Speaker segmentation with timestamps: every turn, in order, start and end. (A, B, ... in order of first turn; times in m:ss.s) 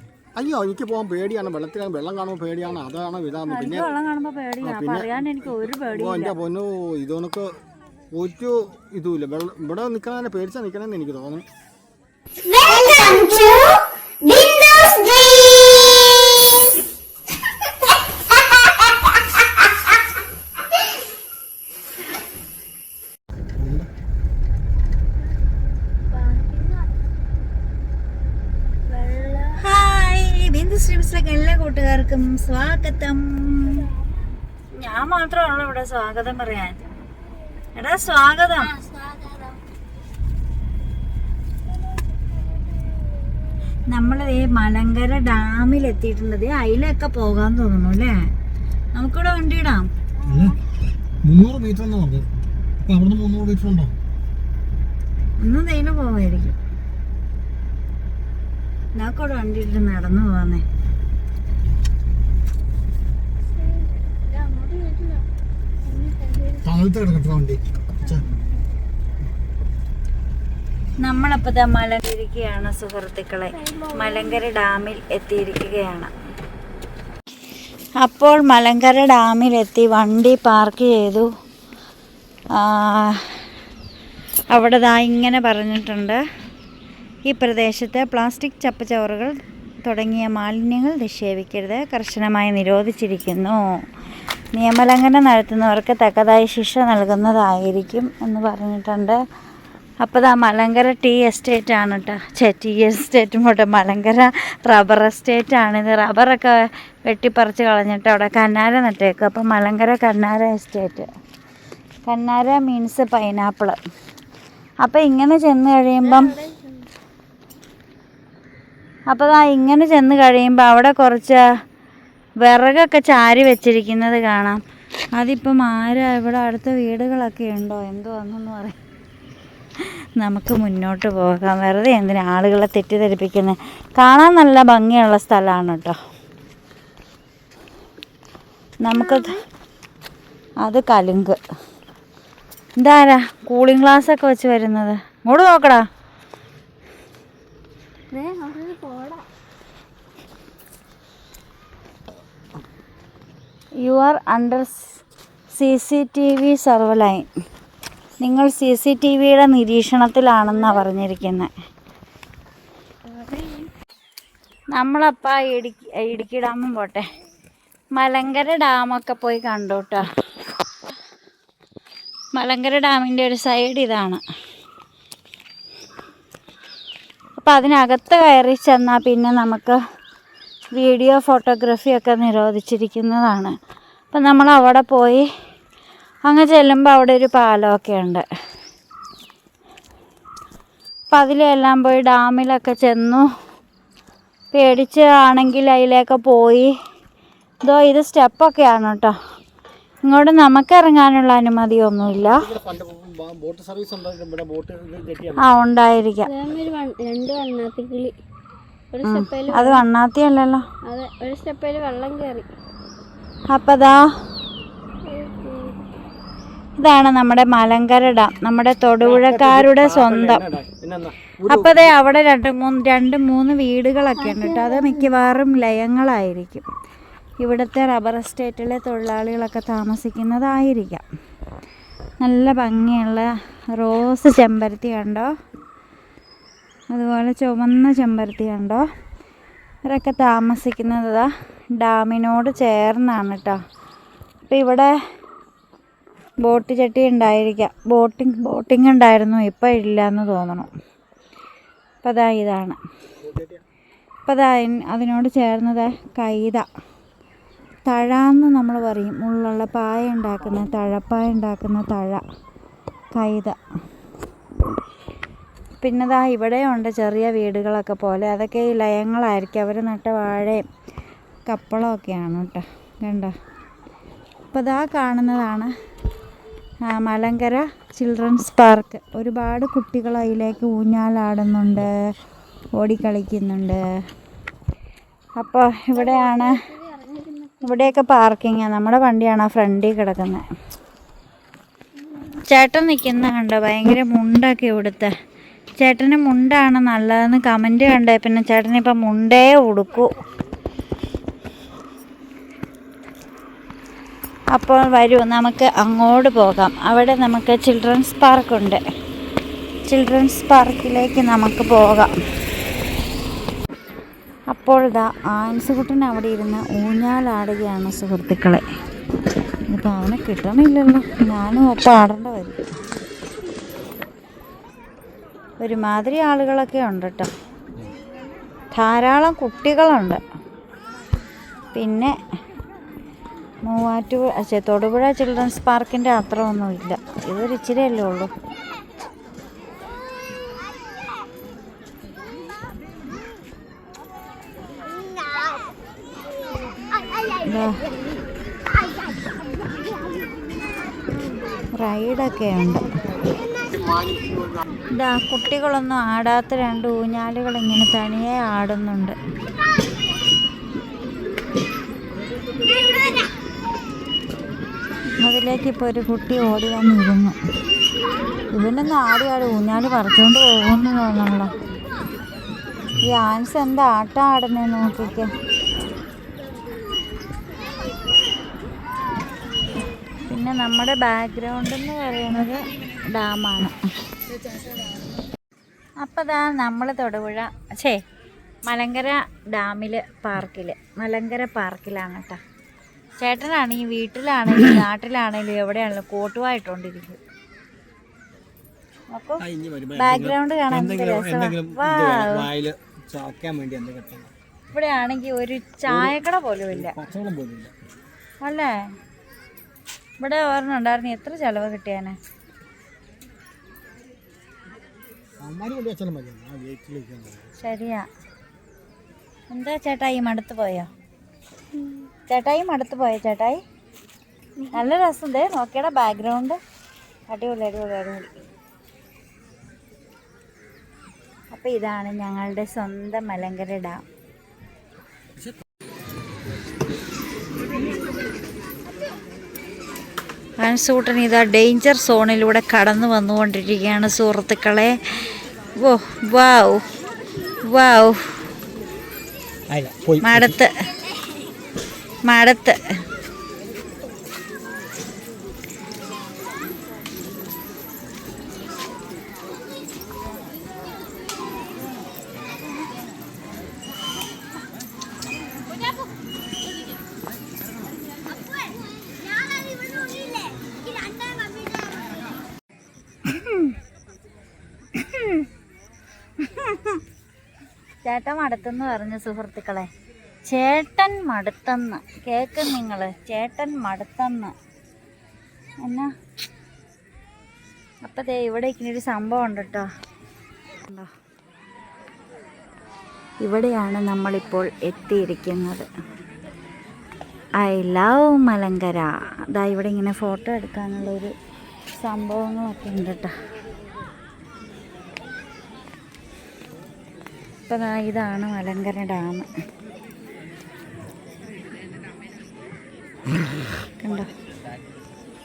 0:00.4-0:03.9 A
0:03.5-0:06.3 B
0:04.6-0:05.1 A
0:05.9-0:07.6 A
0:08.1-0:11.4 A
0:12.4-0:16.4 C
0:23.6-0:23.9 A
0:26.1-0:26.8 C
0:28.9-0:29.6 C
0:29.6-0:33.9 B
0:34.8-0:36.8 B
0:37.8-0:38.7 B
0:38.6-0:39.6 C
0:43.9-0:48.3 B
0:48.9-0:49.9 B
0:50.2-0:50.6 A
0:51.2-0:52.3 A
0:52.8-0:53.9 A
0:55.4-0:56.6 B
0:59.0-1:00.6 B
1:03.7-1:05.2 C
1:05.8-1:06.6 C
1:06.6-1:08.2 A
1:11.0-1:16.1 B
1:13.5-1:14.4 C
1:18.0-1:21.3 B
1:22.5-1:23.4 B
1:24.5-1:26.2 B
1:27.3-1:33.6 B
1:34.6-1:39.2 B
1:40.0-1:51.1 B
1:52.1-1:53.8 B
1:54.8-1:56.4 B
1:56.0-1:56.8 C
1:59.1-2:01.4 B
2:02.4-2:04.6 B
2:05.2-2:08.8 B
2:10.2-2:16.0 B
2:18.8-2:19.3 B
2:18.9-2:19.4 C
2:20.6-2:21.4 B
2:22.8-2:25.8 B
2:28.1-2:29.2 C
2:33.8-2:34.9 B
2:35.5-2:37.2 B
2:38.2-2:41.5 B
2:43.0-2:43.7 C
2:44.7-2:47.0 B
2:48.0-2:50.0 B
2:52.4-2:54.2 B
2:57.4-2:59.8 B
3:00.7-3:03.5 B
3:04.1-3:05.3 B
3:06.3-3:08.2 B
3:11.1-3:13.2 B
3:14.5-3:16.7 B
3:17.7-3:19.1 B
3:20.1-3:22.4 B
3:22.2-3:25.4 A
3:25.4-3:26.3 B
3:26.2-3:28.1 C
3:28.9-3:29.8 C
3:29.0-3:30.6 B
3:30.9-3:32.4 C
3:33.5-3:34.0 B
3:35.1-3:35.8 C
3:36.8-3:40.4 B
3:39.0-3:41.9 A
3:41.5-3:46.6 B
3:44.2-3:45.1 C
3:47.4-3:51.0 B
3:52.2-3:55.3 B
3:56.9-3:58.8 B
3:59.9-4:03.6 B
4:04.5-4:04.9 B
4:06.4-4:10.7 B
4:12.0-4:12.8 B
4:13.2-4:13.6 A
4:14.2-4:16.6 B
4:17.9-4:22.2 B
4:23.1-4:23.6 B
4:25.8-4:30.6 B
4:31.5-4:33.3 B
4:34.5-4:35.7 B
4:36.9-4:41.9 B
4:42.8-4:43.8 B
4:45.4-4:46.6 B
4:45.9-4:47.9 C
4:47.6-4:50.4 B
4:52.4-4:55.1 B
4:55.8-5:00.1 B
5:04.5-5:08.8 B
5:09.9-5:12.1 B
5:14.5-5:18.6 B
5:19.7-5:22.6 B
5:25.6-5:27.3 B
5:28.7-5:30.2 B
5:31.7-5:32.1 B
5:33.7-5:38.3 B
5:47.4-5:47.8 B
5:51.8-5:52.8 B
5:54.9-5:59.1 B
6:05.2-6:07.4 B
6:08.5-6:11.5 B
6:13.0-6:15.3 B
6:20.2-6:23.7 B
6:26.0-6:28.0 B
6:28.7-6:32.4 B
6:33.2-6:37.2 B
6:39.1-6:39.4 B
6:39.4-6:44.3 A
6:39.9-6:42.4 B
6:44.7-6:47.0 B
6:45.9-6:46.2 A
6:46.7-6:47.7 A
6:48.4-6:48.7 B
6:50.2-6:52.2 B
6:55.4-6:57.4 A
6:57.6-6:58.0 B
6:59.5-7:00.9 B
7:01.7-7:02.1 C
7:02.3-7:03.6 B
7:04.6-7:04.8 C
7:04.7-7:06.6 B
7:07.3-7:08.3 B
7:11.5-7:14.0 B
7:20.6-7:24.9 B
7:25.8-7:26.8 B
7:27.7-7:28.2 B
7:29.7-7:30.5 A
7:30.2-7:30.7 B
7:32.3-7:32.8 B
7:48.3-7:52.0 C
7:53.2-7:53.7 B
7:54.9-7:55.4 B
7:56.4-7:57.0 B
7:58.0-7:59.9 B
8:00.5-8:04.5 B
8:05.8-8:06.1 B
8:08.0-8:09.8 B
8:13.4-8:15.9 B
8:17.6-8:21.3 B
8:22.0-8:23.3 B
8:27.7-8:29.5 B
8:34.0-8:34.3 B